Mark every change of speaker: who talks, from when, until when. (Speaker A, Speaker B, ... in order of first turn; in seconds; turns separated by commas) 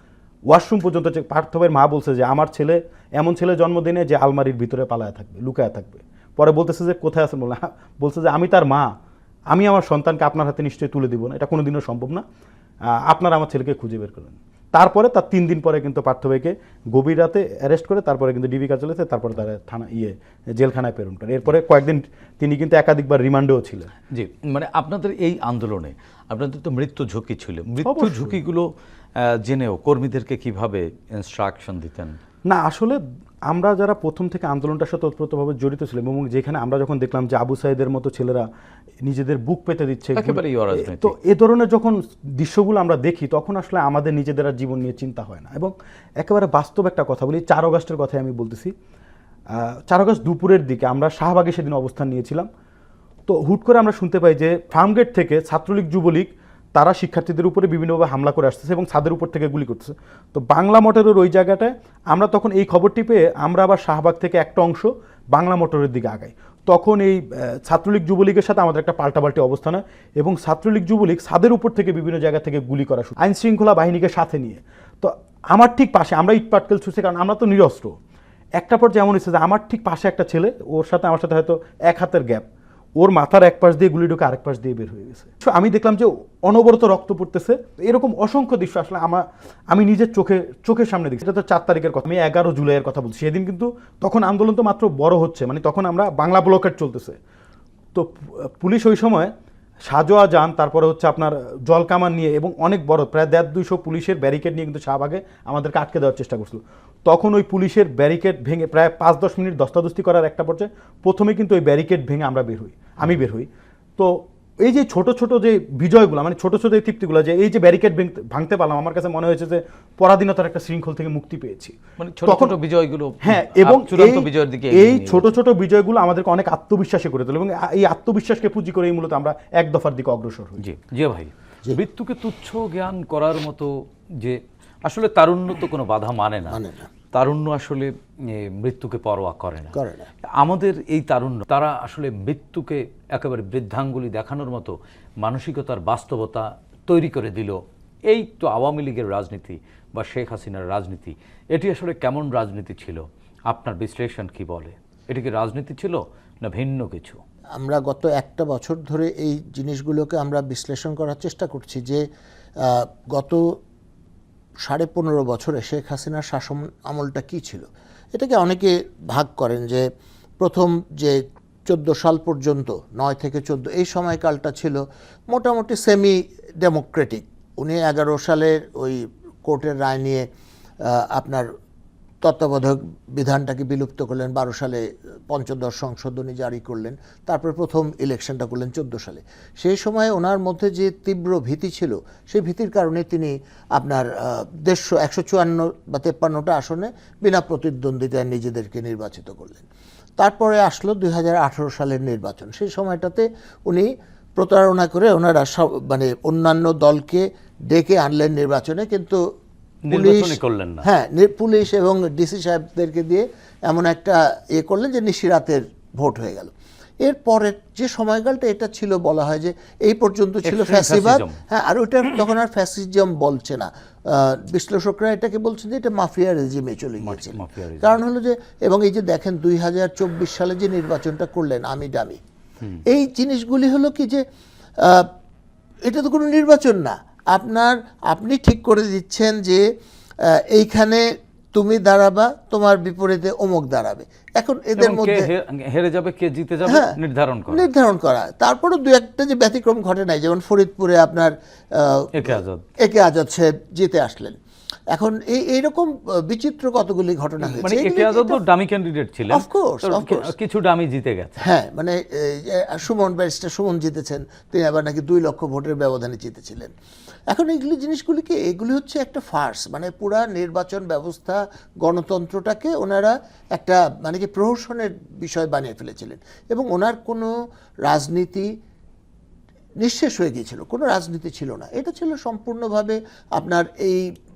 Speaker A: 0.5-8.9, Speaker A: 9.5-12.2, Speaker A: 12.9-23.9, Speaker B: 24.1-32.2, Speaker A: 27.9-28.4, Speaker A: 32.5-38.5, Speaker A: 39.0-48.7, Speaker B: 40.1-41.1, Speaker A: 49.5-52.5, Speaker A: 53.3-78.0, Speaker A: 78.6-97.2, Speaker A: 97.9-99.3, Speaker A: 99.9-122.6, Speaker B: 122.0-125.3, Speaker A: 123.2-130.6, Speaker B: 130.6-136.6, Speaker C: 136.5-136.9, Speaker B: 137.1-139.8, Speaker C: 139.8-140.1, Speaker B: 140.3-157.2, Speaker C: 157.6-162.1, Speaker C: 162.6-163.6, Speaker C: 164.6-180.3, Speaker C: 180.8-181.5, Speaker C: 182.2-199.7, Speaker C: 200.2-209.2, Speaker B: 209.9-210.9, Speaker C: 209.9-232.2, Speaker B: 220.4-221.4, Speaker B: 227.0-228.0, Speaker C: 232.9-234.2, Speaker C: 234.8-235.1, Speaker C: 235.8-239.7, Speaker C: 240.2-245.3, Speaker B: 244.8-247.7, Speaker C: 246.7-247.0, Speaker C: 247.5-254.4, Speaker B: 252.1-252.6, Speaker C: 254.9-258.4, Speaker B: 257.6-261.4, Speaker C: 259.3-260.3, Speaker C: 261.4-266.7, Speaker C: 267.3-277.3, Speaker C: 277.9-278.5, Speaker C: 279.8-284.1